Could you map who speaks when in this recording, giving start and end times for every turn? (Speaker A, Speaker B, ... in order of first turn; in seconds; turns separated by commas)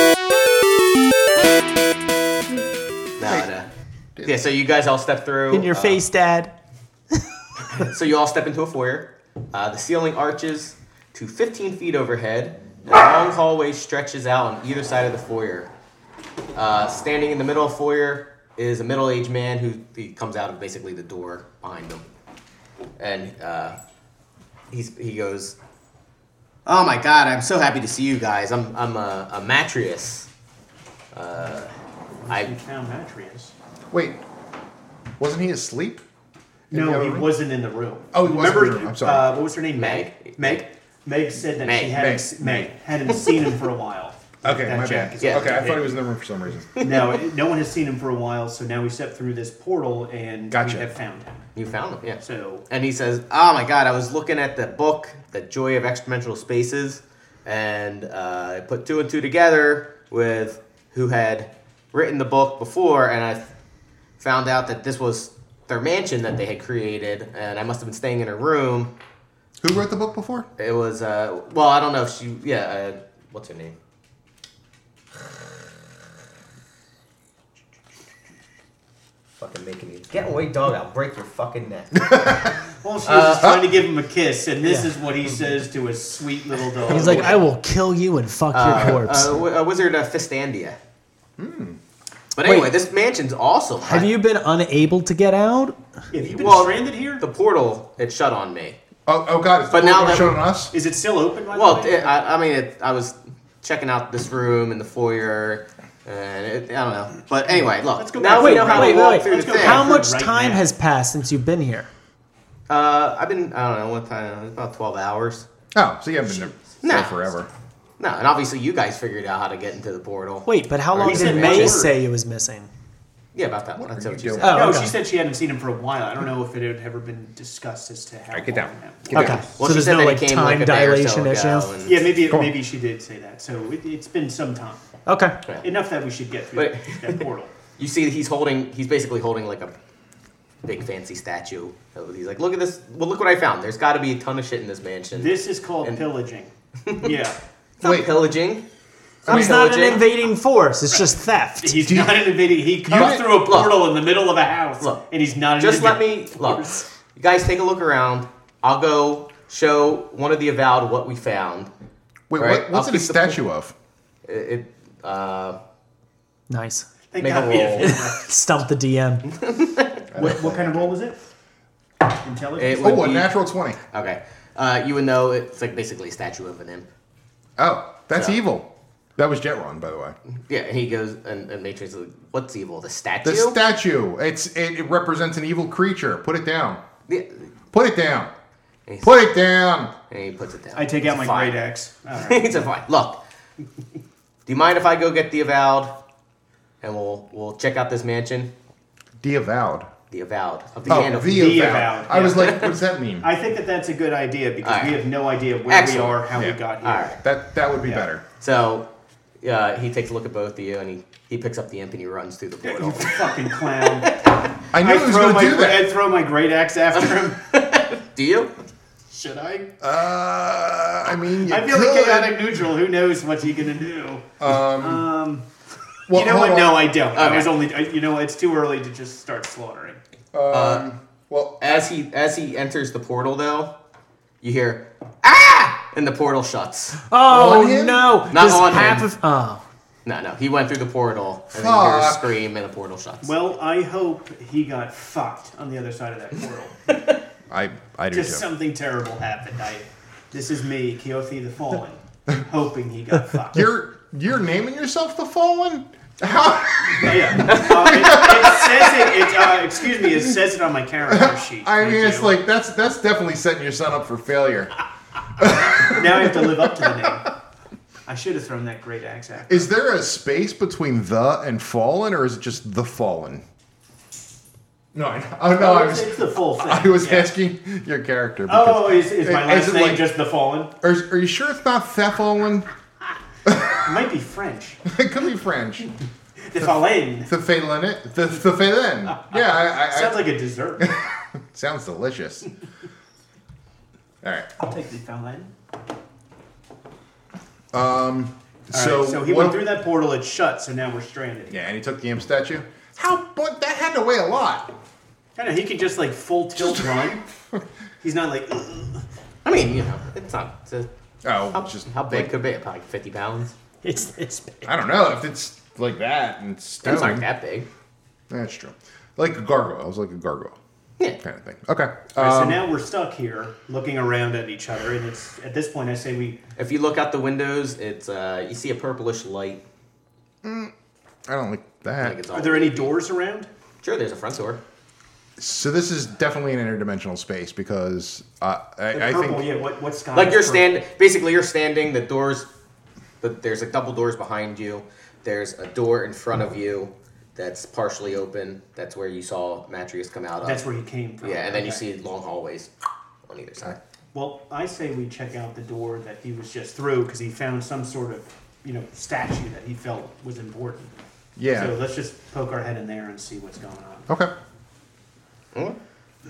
Speaker A: 3.2-3.7, Speaker B: 4.2-4.4, Speaker A: 4.2-6.0, Speaker C: 5.5-6.5, Speaker A: 7.7-15.7, Speaker A: 16.6-22.0, Speaker A: 23.0-23.8, Speaker A: 24.7-25.6, Speaker A: 26.7-30.3, Speaker A: 31.1-31.7, Speaker D: 32.2-33.5, Speaker A: 32.3-32.5, Speaker B: 33.9-34.2, Speaker B: 35.2-36.0, Speaker B: 36.7-37.3, Speaker D: 36.7-46.0, Speaker B: 38.1-39.4, Speaker A: 39.8-40.6, Speaker A: 41.6-42.0, Speaker B: 41.9-42.7, Speaker B: 44.4-46.7, Speaker A: 45.2-45.7, Speaker A: 46.8-47.1, Speaker D: 46.8-51.5, Speaker B: 50.5-50.9, Speaker A: 51.5-63.5, Speaker D: 52.2-52.6, Speaker A: 64.2-68.9, Speaker B: 69.6-70.5, Speaker A: 70.6-73.8, Speaker A: 79.4-82.5, Speaker B: 82.0-82.5, Speaker D: 82.8-87.4, Speaker A: 83.0-83.6, Speaker C: 84.6-84.9, Speaker A: 86.9-87.4, Speaker C: 86.9-89.3, Speaker A: 88.5-90.8, Speaker B: 91.4-91.8, Speaker A: 92.3-94.1, Speaker C: 92.4-92.7, Speaker C: 93.8-95.8, Speaker D: 96.1-97.2, Speaker A: 96.4-98.8, Speaker B: 99.1-100.7, Speaker A: 99.7-100.4, Speaker D: 100.7-102.2, Speaker A: 101.5-109.9, Speaker D: 108.0-110.7, Speaker C: 108.3-111.9, Speaker A: 112.7-115.5, Speaker B: 115.7-117.5, Speaker A: 116.8-117.3, Speaker A: 118.0-121.9, Speaker C: 120.5-122.7, Speaker D: 121.0-121.9, Speaker A: 123.3-124.7, Speaker B: 123.8-124.8, Speaker C: 124.4-125.0, Speaker D: 124.5-129.5, Speaker B: 128.3-129.4, Speaker C: 129.1-131.7, Speaker A: 129.2-132.1, Speaker D: 131.9-134.8, Speaker C: 135.1-135.4, Speaker D: 135.6-137.5, Speaker A: 136.6-137.3, Speaker A: 137.8-139.8, Speaker A: 140.6-146.1, Speaker D: 145.1-147.4, Speaker A: 146.9-147.1, Speaker A: 147.8-148.7, Speaker B: 147.8-148.1, Speaker B: 149.2-149.6, Speaker A: 149.3-150.1, Speaker C: 149.3-151.9, Speaker D: 151.6-156.8, Speaker B: 151.8-152.3, Speaker B: 152.8-153.3, Speaker A: 152.9-153.9, Speaker A: 155.6-161.7, Speaker B: 162.3-163.7, Speaker A: 162.4-163.4, Speaker A: 164.2-165.6, Speaker C: 166.5-166.9, Speaker D: 167.1-168.3, Speaker A: 167.2-167.9, Speaker C: 167.8-169.3, Speaker A: 169.3-170.1, Speaker B: 170.1-170.9, Speaker D: 170.2-171.2, Speaker D: 172.1-173.2, Speaker A: 172.6-173.4, Speaker B: 172.8-173.8, Speaker A: 173.9-176.9, Speaker B: 177.6-180.2, Speaker A: 180.5-183.6, Speaker B: 183.2-186.8, Speaker A: 187.1-187.5, Speaker B: 187.7-188.3, Speaker A: 188.9-189.2, Speaker B: 189.0-189.9, Speaker A: 190.1-191.6, Speaker D: 190.7-192.6, Speaker A: 192.2-193.2, Speaker A: 194.5-195.9, Speaker A: 196.8-198.5, Speaker B: 199.2-199.9, Speaker A: 200.1-202.7, Speaker D: 200.9-207.2, Speaker B: 200.9-203.3, Speaker A: 204.6-205.1, Speaker A: 205.7-206.2, Speaker B: 206.3-206.6, Speaker A: 206.8-207.2, Speaker B: 207.2-208.2, Speaker A: 208.4-208.9, Speaker A: 209.4-214.3, Speaker D: 212.6-214.2, Speaker B: 214.7-216.0, Speaker D: 214.7-217.4, Speaker A: 216.9-218.5, Speaker D: 219.1-219.7, Speaker B: 219.8-222.4, Speaker D: 221.5-225.5, Speaker B: 224.4-225.1, Speaker B: 226.1-227.0, Speaker D: 226.1-230.0, Speaker A: 227.1-227.6, Speaker B: 230.3-231.8, Speaker A: 230.5-230.8, Speaker A: 231.6-233.7, Speaker A: 234.4-237.0, Speaker C: 237.1-239.6, Speaker B: 237.2-238.1, Speaker A: 238.3-239.1, Speaker A: 240.1-243.3, Speaker B: 241.5-242.3, Speaker D: 243.2-246.8, Speaker B: 247.5-248.5, Speaker D: 248.1-253.7, Speaker B: 253.5-259.3, Speaker D: 256.9-262.4, Speaker B: 261.1-264.7, Speaker B: 265.4-267.1, Speaker D: 265.8-267.3, Speaker D: 268.1-269.7, Speaker B: 269.5-273.4, Speaker B: 274.9-280.1, Speaker D: 275.6-277.3, Speaker D: 278.5-280.7, Speaker B: 280.8-282.7, Speaker B: 283.4-283.9, Speaker D: 283.8-284.8, Speaker B: 284.9-285.9, Speaker D: 286.5-287.3, Speaker B: 287.3-290.3, Speaker D: 289.3-290.9, Speaker B: 290.8-292.5, Speaker B: 294.2-294.5, Speaker D: 294.6-295.5, Speaker B: 297.7-299.7, Speaker D: 298.7-301.7, Speaker B: 301.5-304.7, Speaker D: 305.4-307.2, Speaker B: 306.6-307.6, Speaker D: 308.0-309.0, Speaker A: 309.4-310.9, Speaker B: 311.2-312.3, Speaker A: 311.5-313.6, Speaker D: 313.8-314.7, Speaker B: 314.6-317.3, Speaker A: 316.8-317.7, Speaker B: 318.3-320.6, Speaker B: 321.2-322.6, Speaker D: 322.2-326.4, Speaker A: 326.6-329.6, Speaker B: 330.4-330.7, Speaker B: 331.3-332.2, Speaker A: 332.0-333.0, Speaker D: 332.3-333.5, Speaker A: 333.8-334.6, Speaker B: 335.4-339.5, Speaker D: 338.9-340.7, Speaker A: 340.1-342.5, Speaker A: 343.2-350.6, Speaker D: 350.4-351.8, Speaker A: 351.2-352.7, Speaker A: 353.3-353.8, Speaker D: 354.1-360.9, Speaker B: 361.4-361.8, Speaker D: 361.5-364.1, Speaker B: 364.1-364.3, Speaker A: 365.5-365.8